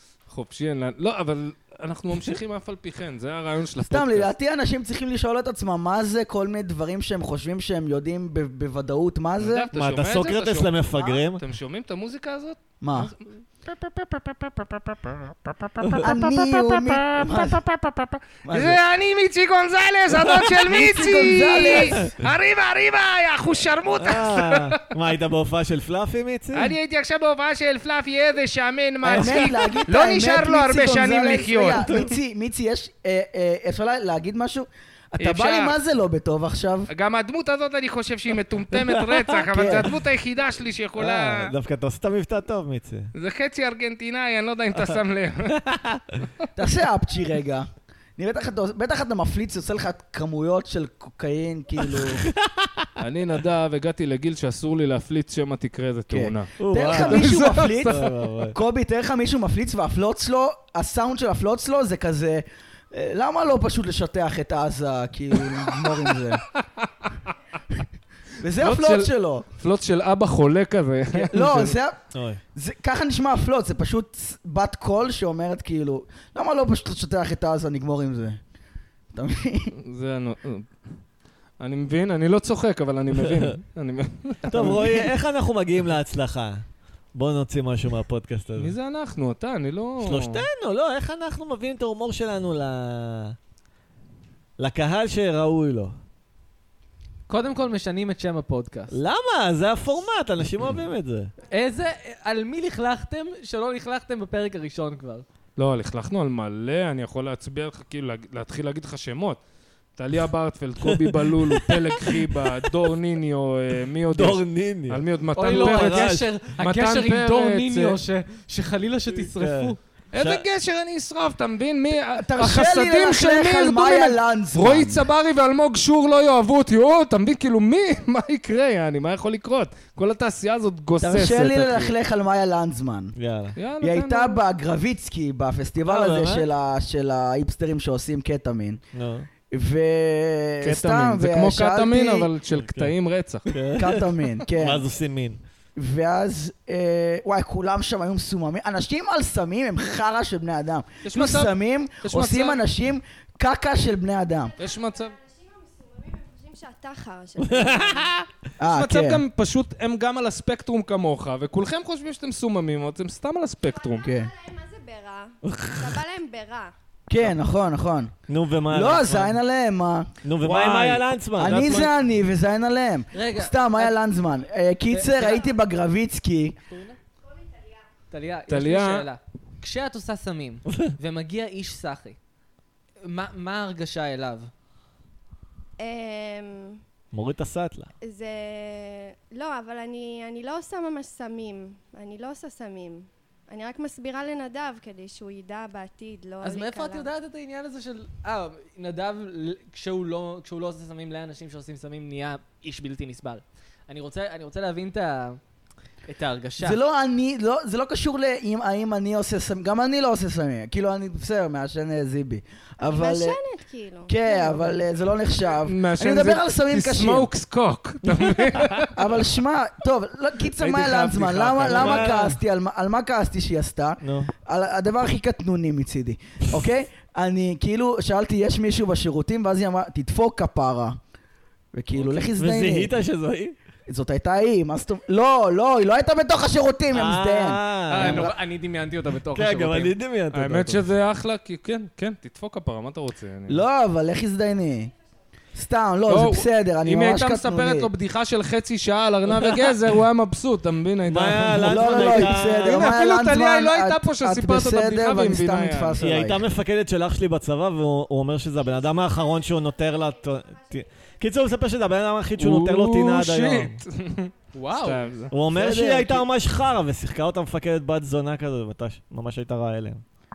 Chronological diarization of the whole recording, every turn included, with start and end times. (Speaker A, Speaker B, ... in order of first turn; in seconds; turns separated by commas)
Speaker A: 0.3-4.3, Speaker B: 3.9-9.7, Speaker A: 9.4-10.8, Speaker C: 9.7-11.4, Speaker A: 11.3-24.8, Speaker B: 12.8-13.1, Speaker C: 15.8-16.1, Speaker B: 16.0-17.6, Speaker B: 18.5-18.8, Speaker B: 20.6-22.1, Speaker C: 24.0-26.8, Speaker A: 26.5-32.0, Speaker B: 29.0-36.9, Speaker C: 29.2-29.5, Speaker A: 35.2-35.8, Speaker A: 36.9-41.5, Speaker C: 39.0-39.4, Speaker B: 39.5-39.9, Speaker C: 41.0-43.1, Speaker A: 43.1-45.6, Speaker C: 45.5-46.3, Speaker B: 46.6-52.2, Speaker C: 52.0-52.9, Speaker A: 53.0-58.1, Speaker B: 56.1-66.5, Speaker C: 56.6-58.6, Speaker B: 68.4-69.5, Speaker A: 68.6-71.8, Speaker B: 71.2-72.0, Speaker C: 72.1-72.4, Speaker B: 72.5-78.4, Speaker B: 79.1-79.7, Speaker A: 79.8-80.7, Speaker A: 81.6-85.0, Speaker C: 83.2-83.5, Speaker C: 84.5-88.7, Speaker B: 84.5-84.8, Speaker A: 88.6-90.5, Speaker C: 90.0-93.4, Speaker C: 94.6-96.0, Speaker D: 97.3-99.0, Speaker C: 98.9-101.3, Speaker D: 101.5-105.3, Speaker A: 105.6-109.4, Speaker A: 110.0-118.0, Speaker C: 110.8-112.5, Speaker C: 114.1-116.3, Speaker D: 115.4-119.8, Speaker C: 119.2-120.4, Speaker A: 120.1-131.9, Speaker B: 122.2-125.0, Speaker B: 131.0-133.1, Speaker C: 133.2-133.6, Speaker A: 133.6-134.4, Speaker B: 133.8-138.8, Speaker C: 135.8-136.5, Speaker C: 138.9-139.3, Speaker B: 139.5-142.3, Speaker A: 140.6-143.5, Speaker C: 142.6-142.9, Speaker C: 143.5-145.4, Speaker B: 143.8-144.8, Speaker B: 145.8-154.6, Speaker A: 151.0-152.6, Speaker E: 154.6-158.2, Speaker A: 154.6-155.2, Speaker C: 157.4-158.3, Speaker B: 158.6-159.2, Speaker A: 158.6-164.1, Speaker E: 163.7-166.7, Speaker B: 164.1-164.3, Speaker C: 165.5-166.0, Speaker B: 167.1-168.1, Speaker C: 168.3-169.4, Speaker B: 168.7-170.1, Speaker C: 170.2-171.9, Speaker A: 170.4-171.9, Speaker B: 171.4-176.6, Speaker D: 173.1-173.9, Speaker D: 174.9-175.5, Speaker D: 176.7-177.0, Speaker E: 177.2-177.8, Speaker D: 178.1-182.2, Speaker A: 178.5-179.1, Speaker D: 183.0-184.5, Speaker E: 185.8-186.8, Speaker C: 187.1-187.9, Speaker E: 188.0-197.1, Speaker D: 196.4-205.4, Speaker D: 206.1-206.8, Speaker B: 206.6-213.4, Speaker E: 212.8-214.8, Speaker B: 214.1-217.3, Speaker A: 215.6-218.9, Speaker B: 218.9-231.0, Speaker A: 220.6-222.3, Speaker C: 221.6-222.4, Speaker C: 224.0-224.3, Speaker B: 231.7-232.9, Speaker C: 232.0-233.6, Speaker B: 233.9-238.3, Speaker C: 236.9-238.3, Speaker D: 237.9-239.9, Speaker C: 239.3-240.9, Speaker A: 240.3-243.6, Speaker B: 243.5-244.9, Speaker B: 245.6-247.9, Speaker A: 246.1-256.0, Speaker C: 251.1-252.9, Speaker B: 251.6-256.4, Speaker C: 256.0-263.8, Speaker E: 259.2-260.9, Speaker A: 262.4-265.3, Speaker D: 264.5-265.1, Speaker C: 265.3-270.0, Speaker B: 265.5-266.3